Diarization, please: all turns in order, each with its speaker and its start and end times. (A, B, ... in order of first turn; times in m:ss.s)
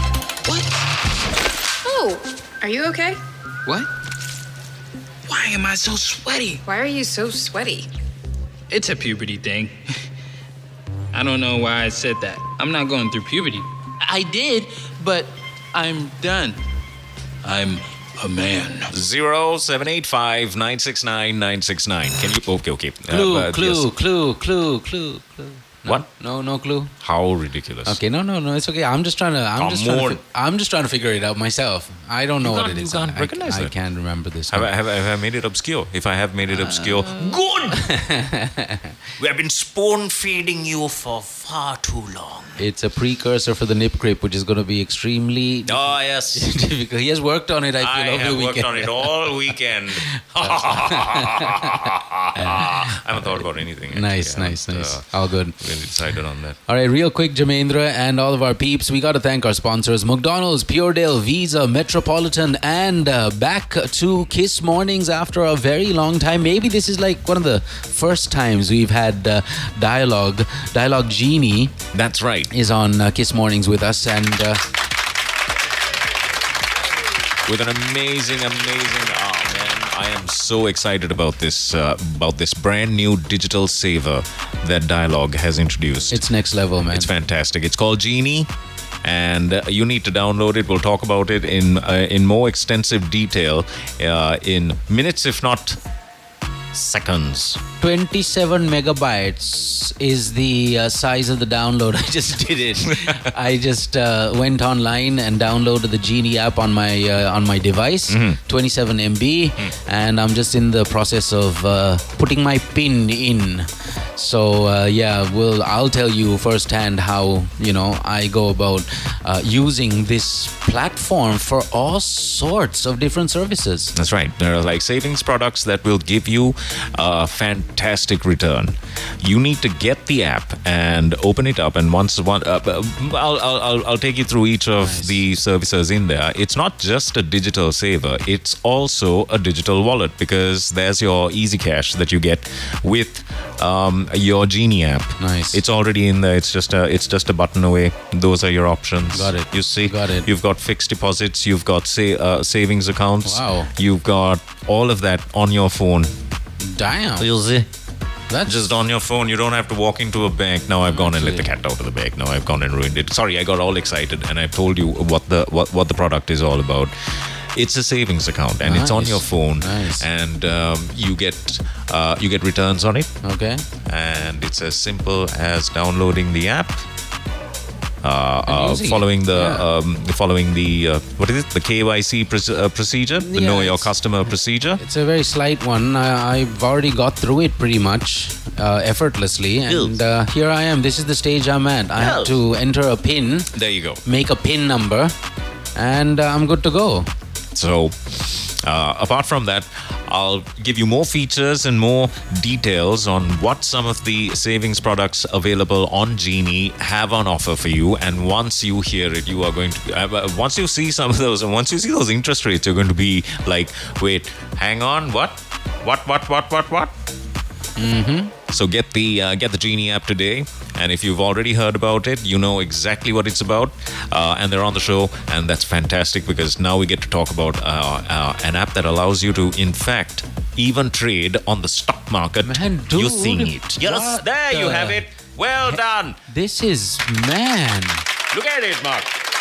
0:00.4-0:00.9 A
0:01.8-0:03.2 B
0:05.2-0:06.6 A
0:06.6-0:07.9 B
0:08.7-0:09.8 A
0:11.1-0:16.6 A
0:17.4-0:18.9 A
0:18.9-0:23.9 C
0:23.1-0:26.9 D
0:27.0-0:28.0 C
0:27.8-0:34.7 D
0:29.6-0:30.2 C
0:32.4-0:33.7 C
0:34.5-0:37.9 C
0:36.6-0:37.2 D
0:37.7-0:38.9 D
0:39.2-0:42.6 C
0:42.6-0:49.1 D
0:45.6-0:46.4 C
0:47.8-0:55.0 C
0:50.4-0:51.8 D
0:52.3-0:53.4 D
0:53.9-0:55.6 D
0:55.6-0:56.6 C
0:56.7-1:11.7 D
1:11.9-1:12.5 C
1:12.5-1:14.6 D
1:17.4-1:26.2 C
1:26.1-1:27.1 D
1:26.9-1:28.5 C
1:29.0-1:35.8 C
1:36.7-1:37.6 C
1:37.8-2:03.9 D
1:42.8-1:43.2 C
1:48.1-1:48.4 C
2:03.9-2:36.1 C
2:14.8-2:15.2 D
2:25.2-2:25.6 D
2:29.1-2:30.3 D
2:33.2-2:33.7 D
2:36.6-2:37.3 D
2:37.2-2:37.7 C
2:38.3-2:38.7 D
2:38.4-2:46.9 C
2:40.9-2:41.5 D
2:47.5-2:53.1 C
2:48.6-2:50.0 D
2:53.2-2:53.6 D
2:53.8-2:56.8 C
2:58.0-3:04.8 C
2:58.5-2:59.6 D
3:03.2-3:03.9 D
3:04.8-3:13.5 D
3:09.7-3:10.0 C
3:12.0-3:12.4 C
3:13.5-3:14.0 C
3:14.0-3:15.1 D
3:15.8-3:17.1 D
3:17.5-3:36.9 C
3:37.8-3:38.3 D
3:38.5-3:56.2 C
3:52.4-3:55.0 D
3:56.3-3:58.0 D
3:58.3-3:59.2 C